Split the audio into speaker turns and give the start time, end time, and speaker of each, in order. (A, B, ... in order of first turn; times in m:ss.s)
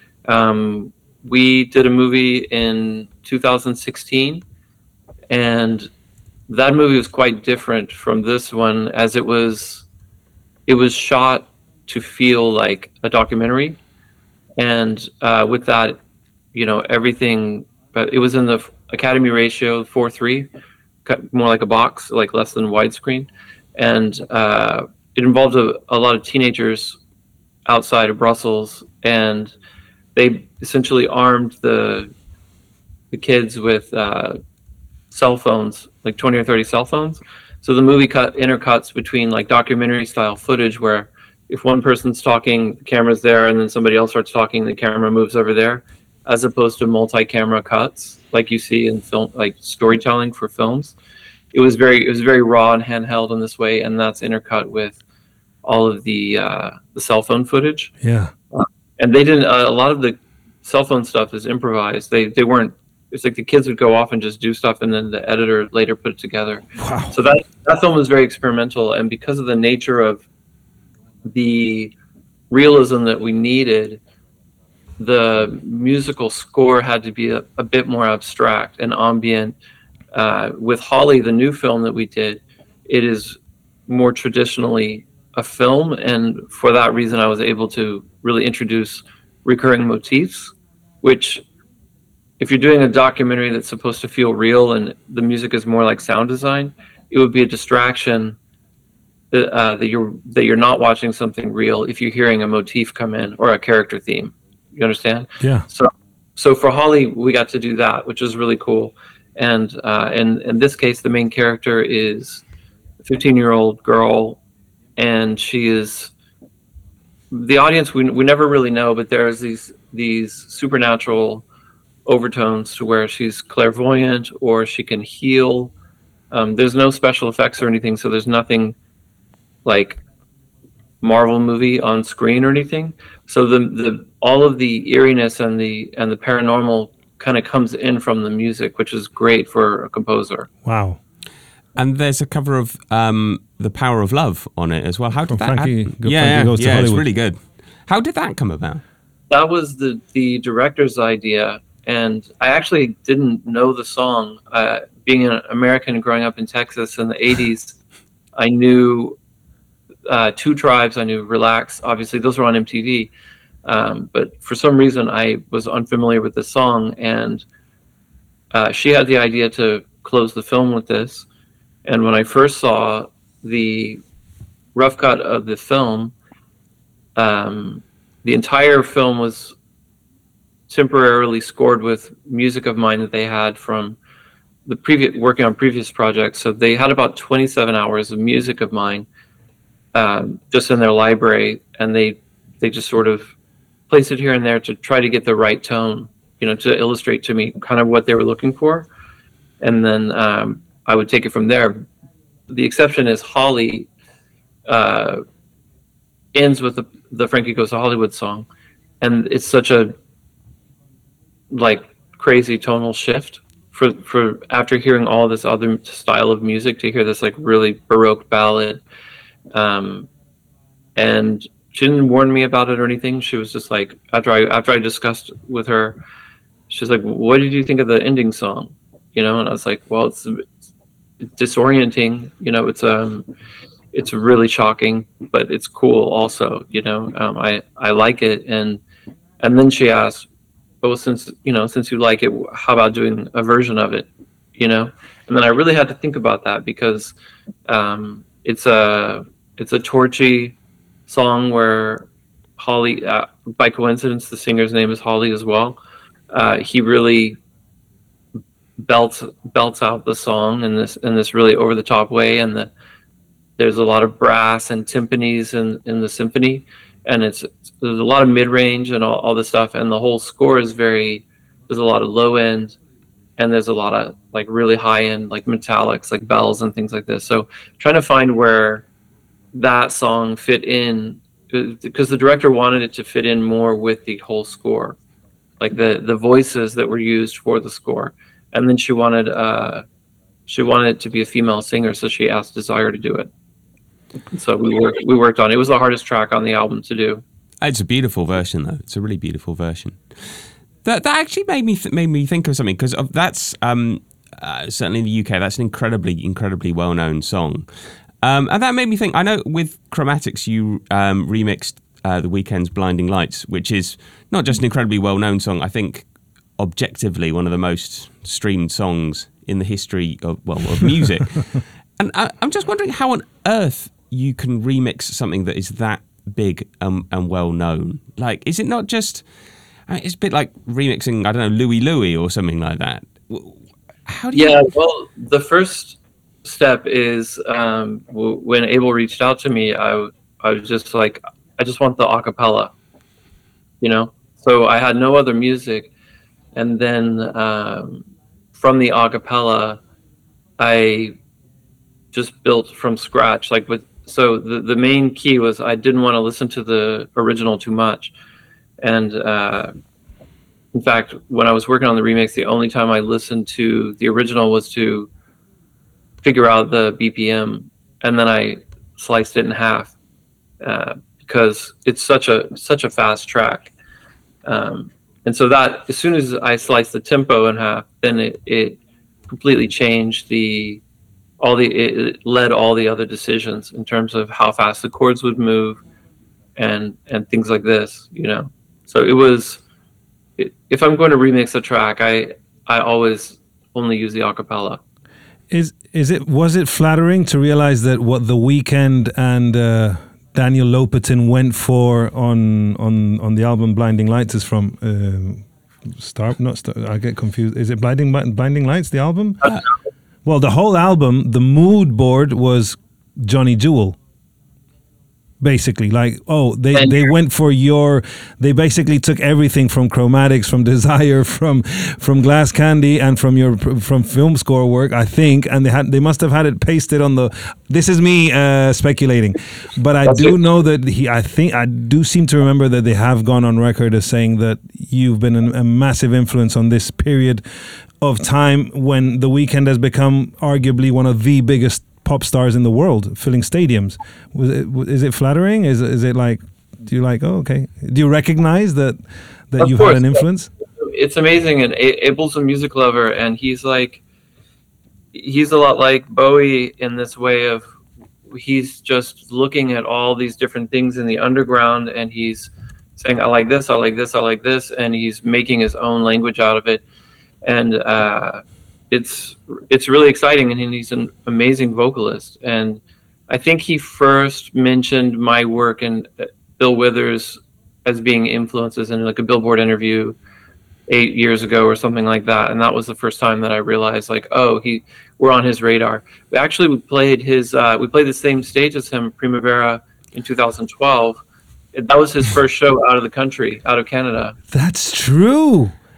0:00.3-0:04.4 A
0:05.3-0:05.9 A
0:06.5-0:09.8 A
0:10.7-0:13.8 A
0:14.6-0:16.0 A
0:16.5-0:20.5 A
0:21.0-0:27.0 A
0:27.6-0:29.5 A
0:30.1-0:32.1 A
0:33.1-0:34.4 A
0:35.1-0:50.9 A
0:51.5-0:55.0 A
0:55.6-0:57.9 A
0:58.0-0:58.3 B
0:58.5-1:10.2 A
1:06.8-1:07.1 B
1:11.2-1:11.9 A
1:12.5-1:14.0 A
1:15.0-1:19.5 A
1:20.1-1:31.4 A
1:32.4-1:38.4 A
1:39.3-1:52.4 A
1:45.4-1:45.6 B
1:53.0-1:54.4 A
1:55.0-1:56.1 A
1:57.3-2:01.4 A
2:02.0-2:05.7 A
2:06.3-2:08.8 A
2:09.6-2:10.0 A
2:11.0-2:20.5 A
2:20.6-2:21.0 B
2:21.8-2:28.8 C
2:25.2-2:27.0 B
2:29.3-2:37.8 A
2:38.4-2:39.2 A
2:40.1-2:43.1 A
2:43.6-2:47.4 A
2:48.5-2:51.2 A
2:51.8-2:54.0 A
2:54.7-2:56.1 A
2:57.2-2:59.6 A
3:00.7-3:04.0 A
3:04.6-3:09.0 A
3:09.9-3:13.3 A
3:13.9-3:18.9 A
3:19.6-3:21.8 A
3:22.5-3:23.9 A
3:24.7-3:25.2 A
3:26.3-3:28.5 A
3:29.0-3:29.9 A
3:31.5-3:38.8 A
3:39.5-3:40.1 A
3:41.0-3:46.0 A
3:46.7-3:50.4 A
3:51.4-3:53.2 A
3:53.9-3:58.8 A
3:59.4-4:00.3 A
4:00.8-4:07.1 A
4:07.7-4:10.6 A
4:11.1-4:15.8 A
4:16.3-4:17.4 A
4:18.8-4:22.7 A
4:23.6-4:32.8 A
4:33.4-4:38.8 A
4:39.5-4:45.0 A
4:45.6-4:49.8 A
4:50.5-4:53.3 A
4:54.3-4:57.2 A
4:57.6-5:07.7 C
5:08.2-5:16.0 C
5:16.6-5:29.2 C
5:29.9-5:34.7 C
5:34.3-5:42.7 A
5:43.8-5:45.9 A
5:46.5-5:49.8 A
5:50.6-5:51.1 A
5:52.1-5:58.1 A
5:58.8-5:59.7 A
6:00.7-6:05.1 A
6:06.2-6:09.9 A
6:10.6-6:13.7 A
6:14.4-6:18.8 A
6:19.3-6:20.8 A
6:21.4-6:25.8 A
6:26.6-6:29.6 A
6:30.4-6:34.8 A
6:35.5-6:49.5 B
6:50.2-6:54.0 B
6:55.4-7:17.4 B
6:56.7-6:57.1 A
7:10.0-7:10.4 A
7:18.0-7:29.0 B
7:29.5-7:30.5 B
7:29.6-7:30.2 A
7:30.8-7:34.0 A
7:35.1-7:37.6 A
7:38.3-7:46.8 A
7:47.4-8:00.2 A
8:00.9-8:11.2 A
8:11.7-8:14.4 A
8:14.5-8:15.8 B